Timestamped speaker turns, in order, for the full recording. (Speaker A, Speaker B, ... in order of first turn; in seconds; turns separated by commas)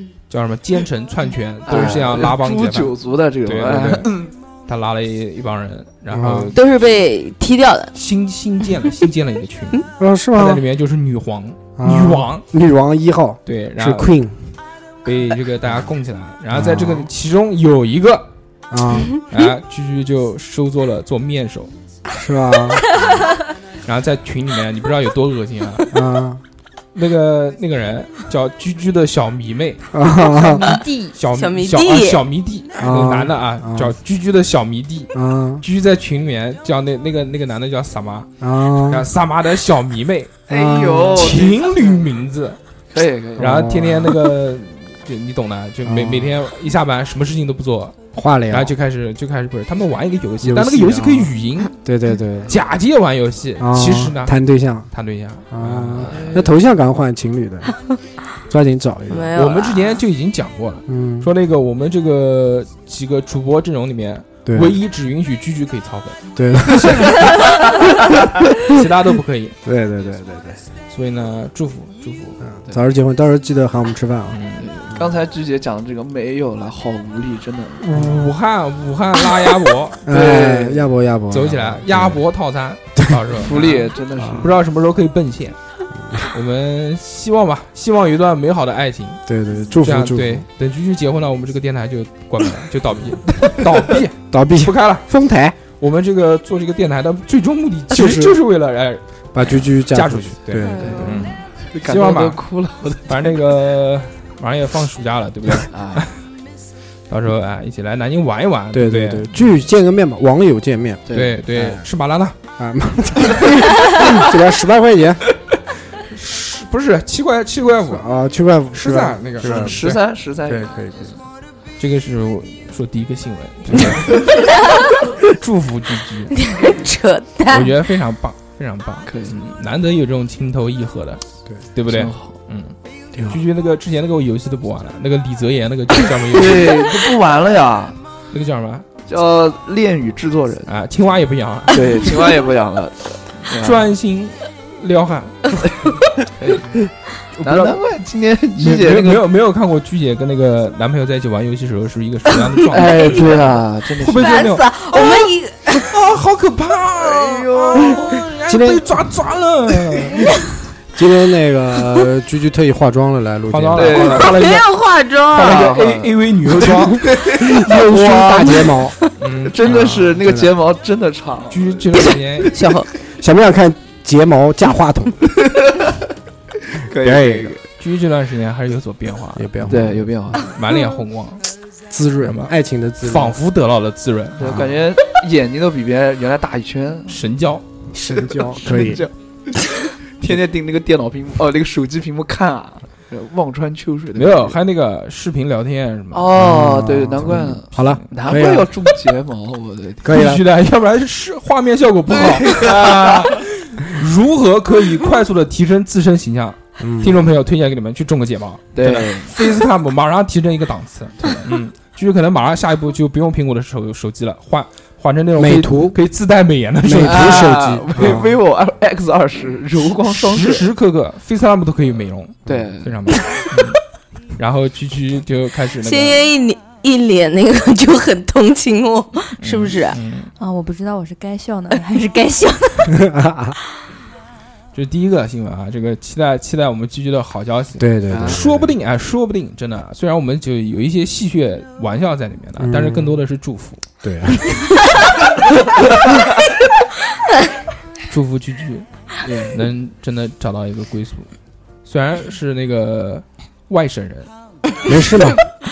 Speaker A: 0.3-2.9, Speaker B: 1.7-4.3, Speaker C: 1.7-2.2, Speaker A: 3.5-4.1, Speaker A: 4.7-6.6, Speaker C: 6.1-6.5, Speaker D: 6.5-8.0, Speaker A: 7.9-12.5, Speaker C: 10.0-10.6, Speaker C: 11.8-14.5, Speaker A: 13.5-14.2, Speaker A: 15.0-18.3, Speaker C: 16.5-17.1, Speaker C: 18.7-19.1, Speaker A: 19.3-21.7, Speaker C: 22.1-22.9, Speaker A: 23.8-26.0, Speaker C: 25.9-26.4, Speaker A: 26.9-29.9, Speaker C: 29.9-30.7, Speaker D: 30.2-32.2, Speaker E: 30.4-31.2, Speaker A: 31.1-40.4, Speaker C: 32.8-33.9, Speaker C: 35.1-35.6, Speaker C: 38.4-39.1, Speaker C: 40.5-41.4, Speaker B: 40.5-42.0, Speaker A: 41.2-42.6, Speaker B: 42.9-43.5, Speaker C: 43.4-44.3, Speaker A: 43.4-48.0, Speaker C: 45.9-46.4, Speaker C: 48.1-48.8, Speaker A: 48.5-51.7, Speaker C: 50.4-52.5, Speaker A: 52.5-54.4, Speaker C: 53.6-54.9, Speaker A: 54.9-56.4, Speaker C: 55.5-57.8, Speaker B: 56.1-56.6, Speaker C: 58.5-59.3, Speaker D: 59.1-60.0, Speaker A: 59.4-67.3, Speaker C: 60.9-61.3, Speaker C: 64.5-64.8, Speaker C: 66.4-67.3, Speaker A: 68.6-69.6, Speaker C: 69.7-70.6, Speaker A: 70.9-72.4, Speaker C: 72.4-74.4, Speaker A: 74.3-75.0, Speaker B: 74.9-77.8, Speaker A: 77.8-80.1, Speaker C: 80.0-82.2, Speaker B: 80.1-80.9, Speaker A: 81.3-83.9, Speaker C: 83.0-84.5, Speaker B: 83.4-84.5, Speaker A: 84.4-85.6, Speaker C: 86.0-86.2, Speaker A: 86.3-89.2, Speaker C: 89.3-90.5, Speaker A: 89.8-95.1, Speaker C: 94.3-95.6, Speaker A: 95.7-102.4, Speaker C: 97.9-98.4, Speaker C: 99.3-101.0, Speaker E: 100.7-101.1, Speaker D: 100.7-101.2, Speaker B: 100.8-103.3, Speaker A: 103.1-106.2, Speaker B: 105.7-106.0, Speaker A: 107.1-109.6, Speaker C: 108.7-111.9, Speaker B: 111.1-111.4, Speaker A: 111.1-112.4, Speaker C: 112.6-115.2, Speaker A: 115.9-118.1, Speaker C: 117.9-119.9, Speaker A: 118.7-120.0, Speaker B: 119.4-121.2, Speaker C: 120.5-121.2, Speaker A: 121.8-124.4, Speaker A: 125.2-126.4, Speaker D: 126.3-127.8, Speaker A: 127.5-132.8, Speaker B: 129.1-129.4, Speaker B: 131.9-132.3, Speaker A: 133.3-136.9, Speaker B: 136.3-138.0, Speaker A: 138.3-138.9, Speaker B: 139.1-140.7, Speaker A: 140.7-142.1, Speaker B: 141.7-143.9, Speaker A: 143.6-146.0, Speaker B: 146.4-146.8, Speaker A: 147.4-147.8, Speaker B: 147.4-149.3, Speaker A: 148.6-160.4, Speaker B: 152.7-154.5, Speaker D: 154.1-155.9, Speaker B: 157.0-158.0, Speaker C: 158.5-159.1, Speaker C: 160.9-164.4, Speaker A: 163.5-164.7, Speaker B: 163.8-164.3, Speaker D: 164.2-165.7, Speaker A: 165.3-167.1, Speaker B: 165.4-168.7, Speaker C: 167.1-169.0, Speaker A: 169.2-170.2, Speaker B: 169.5-171.9, Speaker C: 169.7-170.6, Speaker A: 171.5-172.6, Speaker D: 172.5-172.9, Speaker C: 173.1-175.3, Speaker B: 175.3-176.0, Speaker B: 176.7-177.6, Speaker C: 176.9-177.6, Speaker A: 177.8-179.7, Speaker C: 179.4-180.1, Speaker B: 179.7-180.5, Speaker A: 180.4-181.5, Speaker C: 181.9-183.4, Speaker A: 182.2-184.7, Speaker B: 184.4-187.2, Speaker C: 184.4-184.8, Speaker A: 187.1-187.6, Speaker C: 187.9-189.1, Speaker B: 188.1-194.6, Speaker A: 194.2-196.3, Speaker B: 196.1-200.2, Speaker C: 196.3-198.8, Speaker C: 200.0-200.4, Speaker A: 200.1-218.1, Speaker B: 202.5-203.4, Speaker C: 206.8-207.3, Speaker B: 208.8-209.3, Speaker C: 215.4-216.0, Speaker C: 216.8-218.4, Speaker B: 217.0-220.7, Speaker A: 220.0-223.8, Speaker B: 222.5-223.0, Speaker A: 224.4-226.2, Speaker D: 225.8-230.0, Speaker A: 229.4-230.3, Speaker E: 230.4-232.9, Speaker C: 232.9-233.6, Speaker A: 234.7-243.8, Speaker C: 237.8-238.7, Speaker B: 238.1-238.4, Speaker C: 242.6-243.2, Speaker C: 244.0-244.6, Speaker A: 248.1-248.9, Speaker B: 249.2-249.6, Speaker A: 249.5-251.3, Speaker A: 251.8-254.3, Speaker C: 254.9-255.4